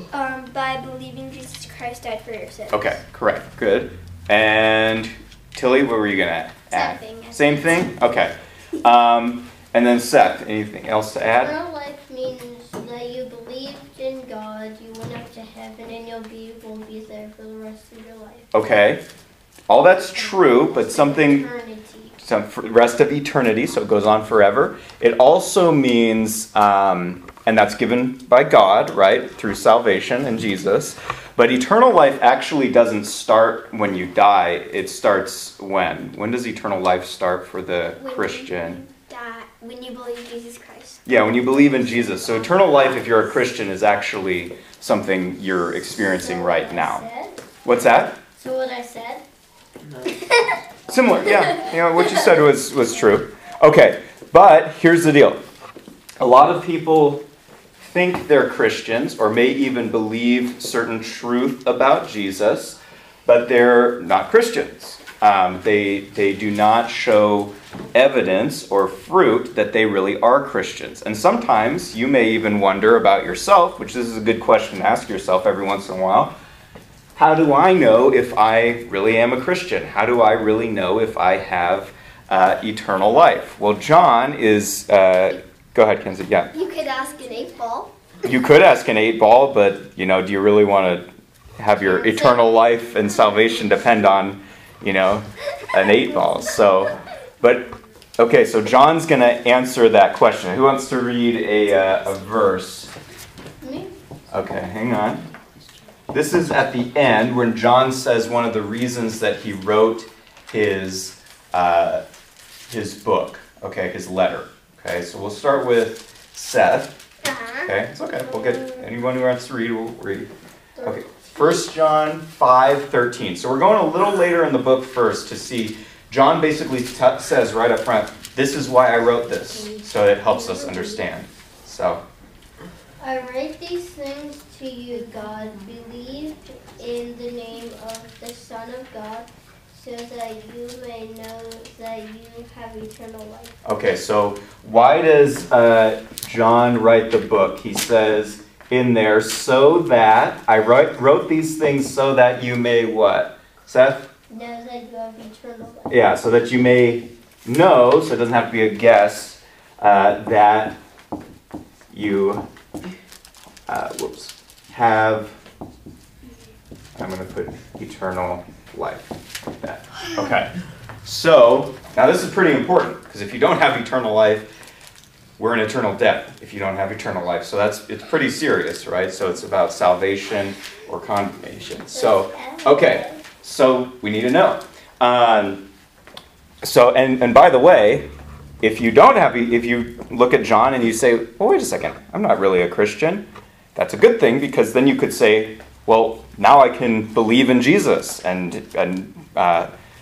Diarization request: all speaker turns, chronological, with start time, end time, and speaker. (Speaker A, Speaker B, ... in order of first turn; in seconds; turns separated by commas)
Speaker A: 0.1-3.0, Speaker B: 2.7-11.6, Speaker A: 6.7-7.8, Speaker C: 11.4-18.5, Speaker B: 18.5-19.0, Speaker B: 19.7-21.5, Speaker C: 20.1-22.1, Speaker B: 22.2-38.8, Speaker A: 38.0-43.0, Speaker B: 41.0-47.0, Speaker C: 42.1-43.2, Speaker C: 46.2-47.4, Speaker B: 47.6-48.2, Speaker C: 48.4-49.2, Speaker B: 50.9-55.4, Speaker B: 56.2-57.2, Speaker B: 57.8-76.3, Speaker B: 77.2-86.5, Speaker A: 86.5-87.9, Speaker B: 88.2-91.1, Speaker B: 91.6-102.9, Speaker C: 103.6-103.9, Speaker B: 104.3-105.3, Speaker B: 106.1-112.0, Speaker B: 112.7-117.0, Speaker A: 117.2-117.7, Speaker B: 117.6-120.3, Speaker C: 118.3-118.9, Speaker C: 120.8-121.7, Speaker B: 120.8-132.0, Speaker C: 129.6-131.1, Speaker C: 133.0-143.6, Speaker B: 143.6-154.1, Speaker C: 154.3-156.0, Speaker B: 155.9-160.8, Speaker B: 161.9-162.5, Speaker B: 163.7-165.4, Speaker B: 167.0-170.5, Speaker B: 171.0-174.5, Speaker B: 175.4-185.7, Speaker C: 181.9-183.2, Speaker B: 186.6-188.1, Speaker B: 188.6-199.7